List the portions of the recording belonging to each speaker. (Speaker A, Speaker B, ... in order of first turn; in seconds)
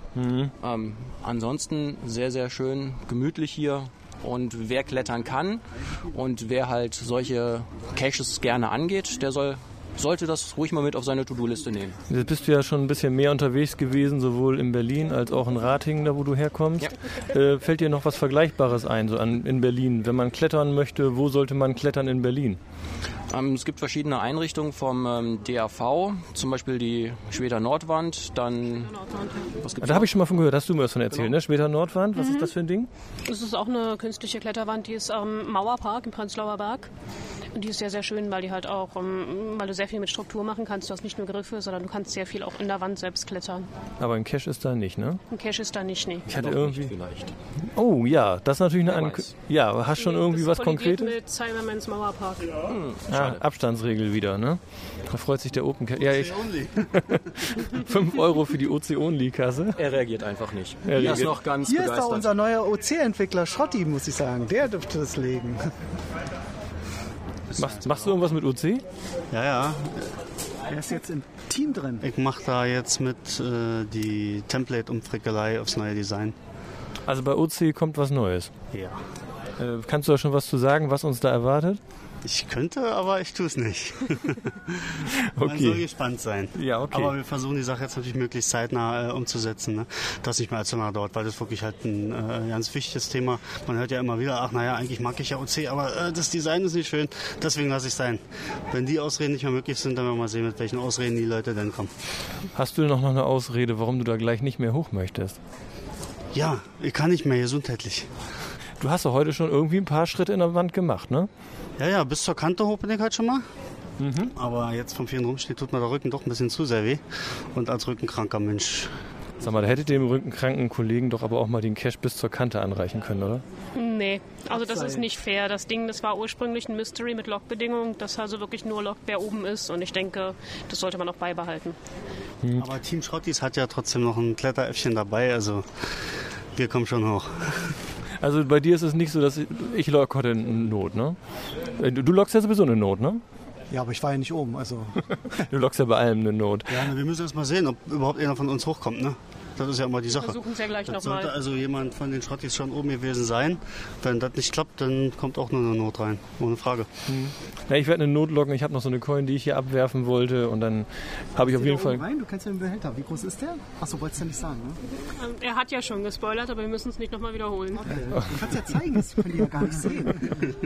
Speaker A: 0.2-0.5, 12.1-22.6, 29.8-32.9, 44.0-45.2, 46.3-46.9, 47.7-51.1, 53.1-59.8, 60.9-61.4, 67.6-68.8, 77.1-78.5, 79.6-81.8, 85.1-85.8, 86.6-87.2, 102.5-105.4, 108.8-111.3, 114.0-114.3, 119.4-123.4, 132.4-132.7, 138.2-141.2, 141.8-143.2, 145.1-146.8, 157.1-162.0
Speaker B: 0.6-12.0, 23.3-29.0, 29.6-30.1, 46.3-47.3, 48.9-49.3, 52.6-53.4, 59.8-62.3
Speaker C: 29.0-29.5, 32.2-32.5, 33.2-36.9, 37.5-43.7, 45.3-46.3, 50.0-52.6, 123.8-131.8, 150.1-151.3, 165.2-167.9
Speaker D: 56.0-56.8, 67.5-68.2, 69.3-70.1, 72.0-76.3, 78.7-79.0, 82.2-101.9, 106.3-108.1, 111.8-113.5, 114.3-117.0, 117.5-118.9, 132.6-135.7, 136.6-137.8, 146.7-156.9
Speaker E: 61.6-65.7, 70.7-72.1, 124.6-125.0, 143.7-145.0, 161.4-164.8, 167.8-170.4